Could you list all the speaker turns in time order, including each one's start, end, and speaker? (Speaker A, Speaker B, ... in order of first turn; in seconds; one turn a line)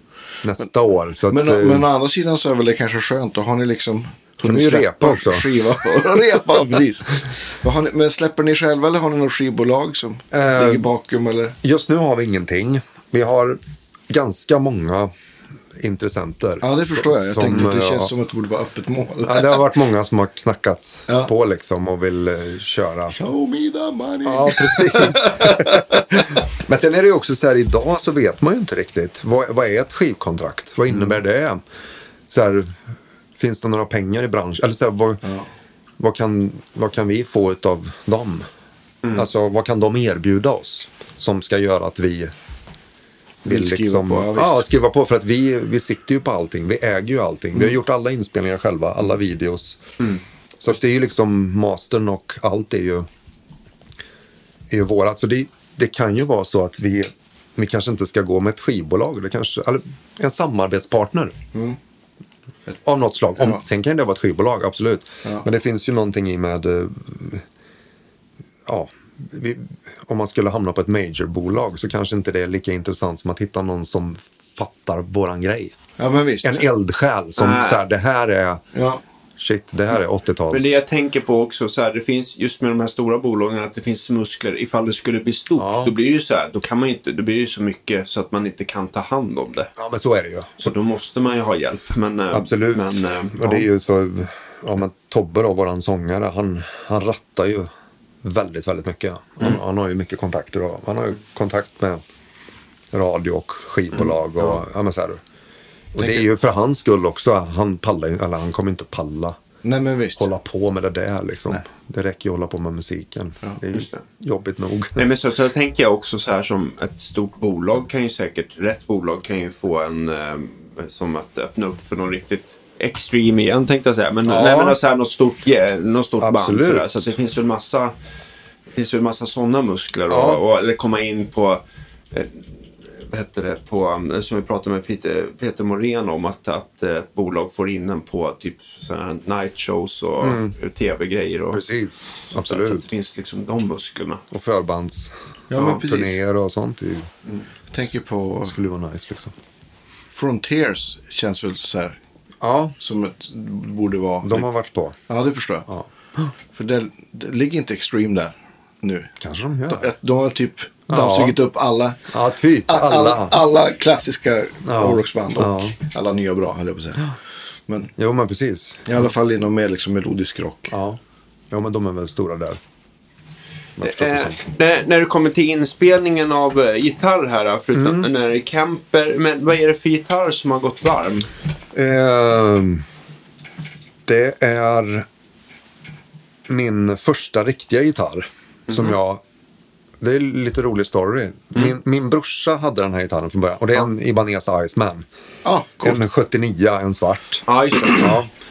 Speaker A: 0.4-1.9
Speaker B: 1.3-11.6
Speaker A: 4.4-6.6
Speaker A: 10.3-10.9
Speaker A: 11.6-15.1
Speaker A: 15.8-18.1
Speaker B: 16.6-19.6
Speaker A: 19.2-23.2
Speaker B: 23.1-26.3
Speaker A: 24.2-31.6
Speaker A: 32.3-32.8
Speaker A: 33.4-35.2
Speaker A: 36.0-38.5
Speaker A: 39.1-42.3
Speaker B: 43.5-44.6
Speaker A: 43.5-49.8
Speaker A: 50.6-53.1
Speaker A: 54.7-61.4
Speaker A: 62.8-67.5
Speaker A: 68.7-75.8
Speaker B: 76.0-76.6
Speaker A: 76.4-78.6
Speaker C: 77.4-77.8
Speaker B: 78.7-79.0
Speaker A: 79.4-80.8
Speaker C: 80.5-89.7
Speaker A: 85.6-85.9
Speaker A: 89.8-90.8
Speaker C: 90.6-93.7
Speaker A: 92.3-97.7
Speaker A: 98.2-102.0
Speaker A: 102.9-105.2
Speaker A: 105.9-109.4
Speaker B: 106.0-106.2
Speaker B: 109.6-110.3
Speaker A: 110.2-115.1
Speaker C: 113.7-114.0
Speaker C: 115.0-127.9
Speaker A: 124.3-124.8
Speaker A: 126.2-127.1
Speaker C: 128.8-131.6
Speaker A: 130.1-130.4
Speaker C: 132.1-141.6
Speaker A: 140.2-140.5
Speaker A: 141.5-142.9
Speaker C: 142.3-144.2
Speaker A: 144.3-147.1
Speaker B: 145.5-146.2
Speaker B: 147.7-148.6
Speaker A: 148.4-149.3
Speaker B: 150.1-152.0
Speaker A: 152.4-152.8
Speaker B: 152.8-154.5
Speaker A: 154.2-155.0
Speaker B: 155.1-155.7
Speaker B: 156.5-159.1
Speaker A: 159.2-159.9
Speaker B: 159.7-162.1
Speaker A: 160.9-161.4
Speaker A: 162.1-163.4
Speaker B: 162.7-167.9
Speaker A: 164.7-165.8
Speaker A: 168.0-169.0
Speaker B: 168.9-170.7
Speaker A: 170.7-172.6
Speaker A: 173.8-174.4
Speaker C: 173.8-181.3
Speaker A: 177.7-178.1
Speaker A: 181.7-182.8
Speaker A: 184.1-185.1
Speaker A: 186.5-189.2
Speaker A: 190.0-195.1
Speaker B: 195.4-196.0
Speaker A: 195.8-198.3
Speaker C: 197.5-198.2